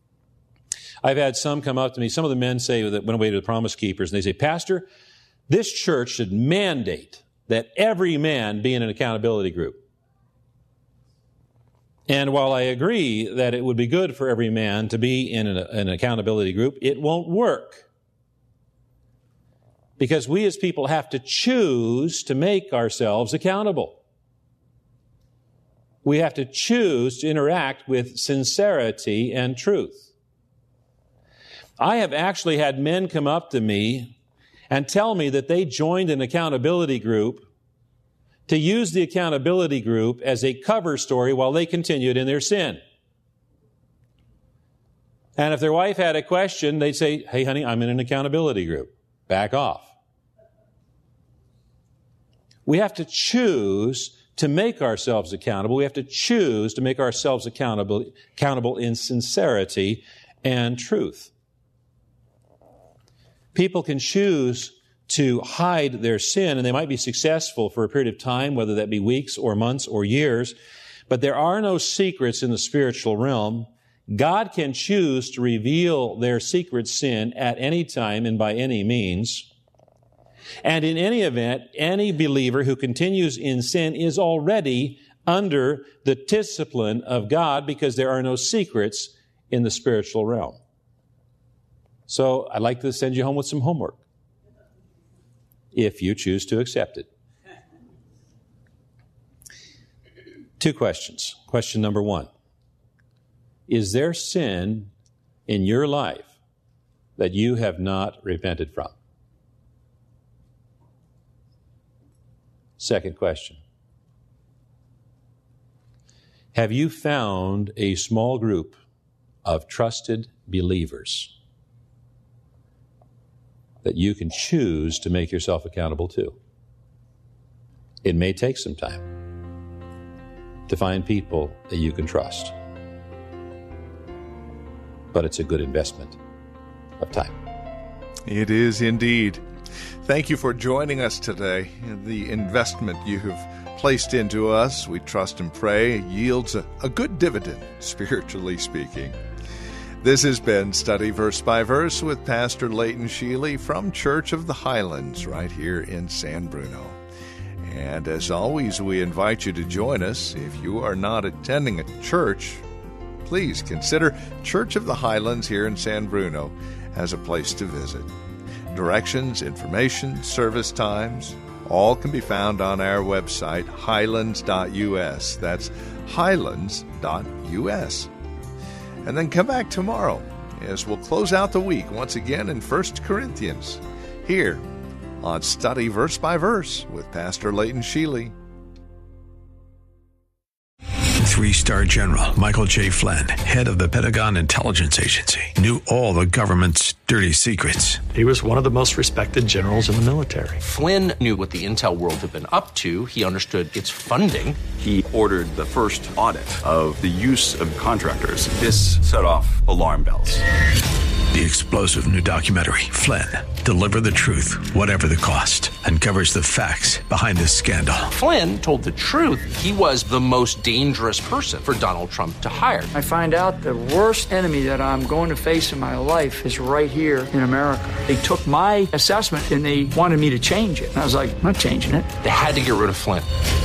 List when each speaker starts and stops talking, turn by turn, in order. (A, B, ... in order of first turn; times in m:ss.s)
0:01.0-0:04.9 A
0:05.5-0:09.8 A
0:12.1-0:17.9 A
0:20.0-0:24.0 A
0:26.0-0:30.1 A
0:31.8-0:34.1 A
0:34.7-0:37.5 A
0:38.5-0:42.8 A
0:45.4-0:49.9 A
0:52.6-1:01.3 A
1:03.5-1:10.5 A
1:11.1-1:19.5 A
1:20.6-1:30.6 A
1:32.1-1:34.0 A
1:35.7-1:37.1 A
1:40.6-1:42.3 A
1:43.7-1:44.9 A
1:45.5-1:46.4 A
1:47.2-1:48.9 A
1:52.8-1:53.6 A
1:56.5-1:58.8 A
1:59.4-2:01.3 A
2:03.8-2:06.4 A
2:08.0-2:09.0 A
2:10.7-2:12.5 A
2:15.1-2:16.2 A
2:17.0-2:17.4 A
2:18.3-2:19.4 B
2:20.0-2:29.2 B
2:30.0-2:37.0 B
2:37.6-2:42.6 B
2:43.2-2:48.1 B
2:48.7-2:58.1 B
2:59.0-3:04.6 B
3:05.2-3:08.3 B
3:11.2-3:18.0 C
3:18.1-3:20.6 D
3:20.6-3:24.6 E
3:24.8-3:30.4 F
3:31.3-3:38.1 C
3:38.1-3:42.9 E
3:42.9-3:52.1 G
3:52.2-3:53.3 E